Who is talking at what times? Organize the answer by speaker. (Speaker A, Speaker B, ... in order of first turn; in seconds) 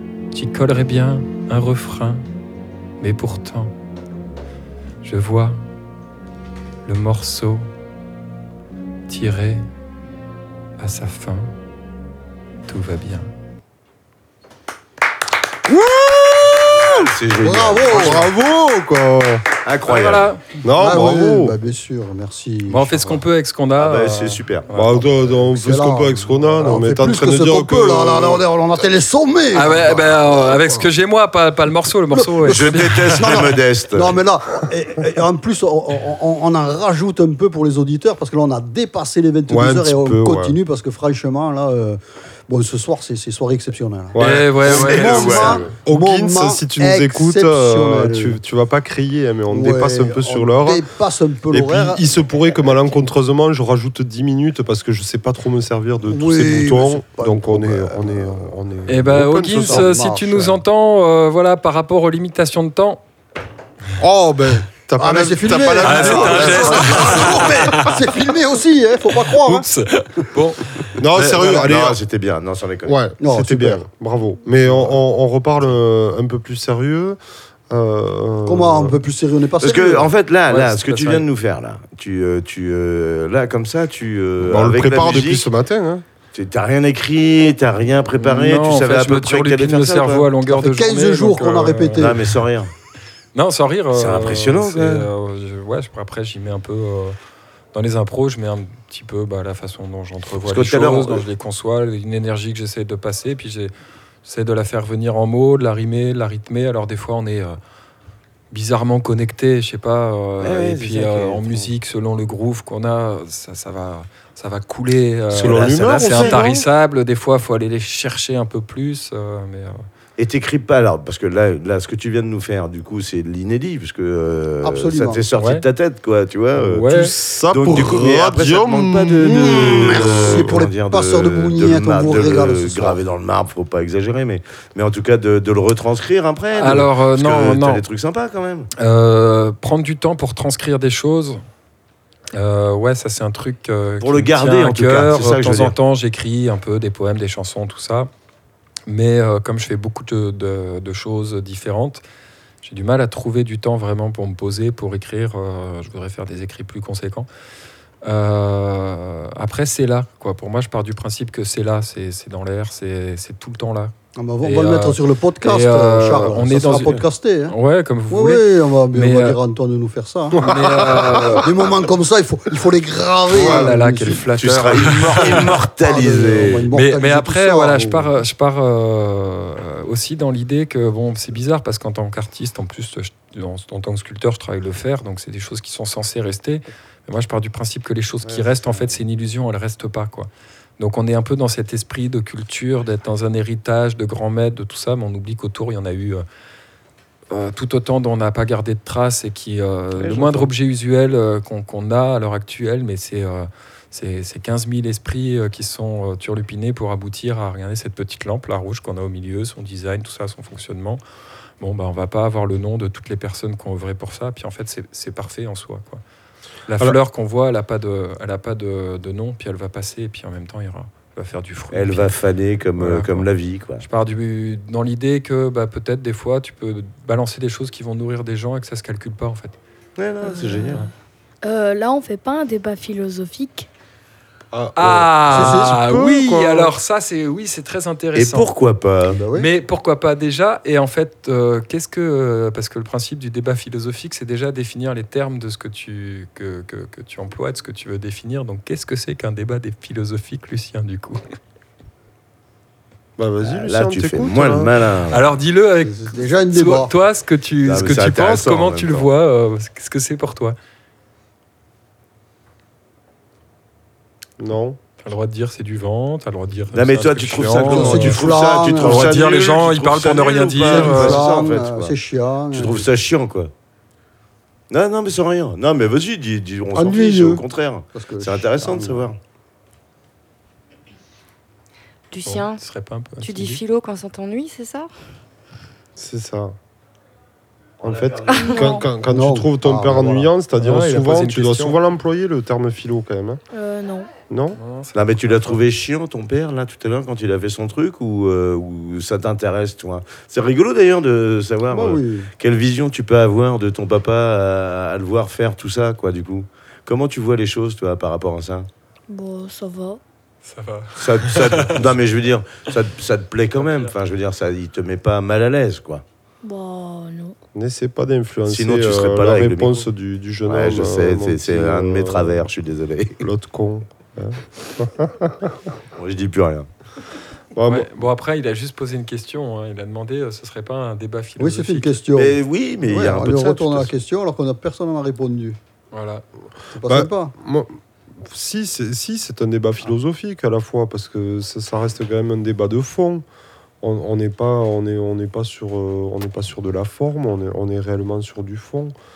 Speaker A: 0.3-2.2, 3.0-3.7, 5.0-5.6, 6.8-7.7, 9.1-9.7, 10.8-11.5, 12.7-13.3, 19.8-20.5, 22.7-25.0, 29.5-33.3, 44.2-45.6, 58.9-63.0, 65.8-68.0, 69.4-71.6, 80.5-81.2, 88.2-92.1, 93.3-97.2, 97.7-103.7, 104.2-107.6, 108.5-119.8, 125.3-125.6, 126.5-127.1, 136.6-137.8, 138.8-141.4, 142.3-148.1, 148.9-152.0, 152.6-157.3, 158.0-169.4, 170.3-171.5, 173.3-175.5, 176.7-196.2, 197.3-211.0, 211.6-216.0, 216.7-222.1, 222.8-223.3, 223.8-229.6, 234.8-238.5, 239.3-251.2, 255.1-260.6, 265.0-271.2, 282.2-283.6, 290.6-291.8, 294.5-295.6, 310.4-311.9, 313.6-313.9, 327.7-331.9, 335.9-336.2
Speaker B: 15.7-16.9, 17.9-19.4, 20.6-21.6, 24.7-28.4, 39.5-40.6, 44.1-44.6, 45.7-50.9, 51.5-59.9, 64.0-67.7, 71.0-72.0, 72.8-77.2, 77.7-78.9, 84.4-86.0, 115.3-116.6, 126.9-130.6, 170.4-171.4, 173.3-173.8, 234.5-236.7, 253.2-254.7, 264.4-264.8, 285.9-286.6, 287.8-293.4, 294.3-294.6, 317.5-322.4, 323.2-325.7, 327.5-327.9, 336.8-343.2, 343.8-348.9
Speaker C: 16.6-18.2, 19.6-20.3, 23.8-24.7, 32.5-34.2, 44.6-45.7, 71.3-73.0, 79.6-85.5, 86.3-90.3, 92.0-92.7, 93.9-95.1, 100.4-101.2, 110.4-111.7, 115.4-116.4, 120.2-127.0, 127.5-138.7, 144.0-145.7, 174.4-176.7, 188.2-189.0, 199.9-200.5, 221.7-223.8, 230.0-230.8, 238.1-239.2, 253.4-255.2, 257.6-259.1, 266.7-271.9, 272.5-273.5, 274.7-279.2, 287.8-288.5, 294.9-308.7, 311.0-316.0, 318.5-319.9, 320.4-323.2, 325.9-326.7, 332.1-333.9
Speaker D: 17.4-18.3, 20.8-23.2, 25.3-30.8, 32.1-48.4, 49.5-52.0, 56.1-58.5, 59.5-60.6, 65.0-69.7, 73.2-73.8, 78.4-80.1, 90.5-92.3, 124.6-125.2, 129.3-133.0, 164.2-167.5, 168.1-174.3, 175.2-178.1, 235.3-235.7, 239.1-239.5, 255.8-256.9, 267.6-269.1, 270.6-272.9, 276.7-279.1, 288.9-290.3, 301.7-302.3, 331.4-335.6, 336.7-337.3
Speaker E: 230.2-230.9, 231.4-233.7, 293.5-294.1, 309.1-310.0, 316.4-317.4
Speaker F: 282.1-282.6, 283.2-284.9, 288.3-288.9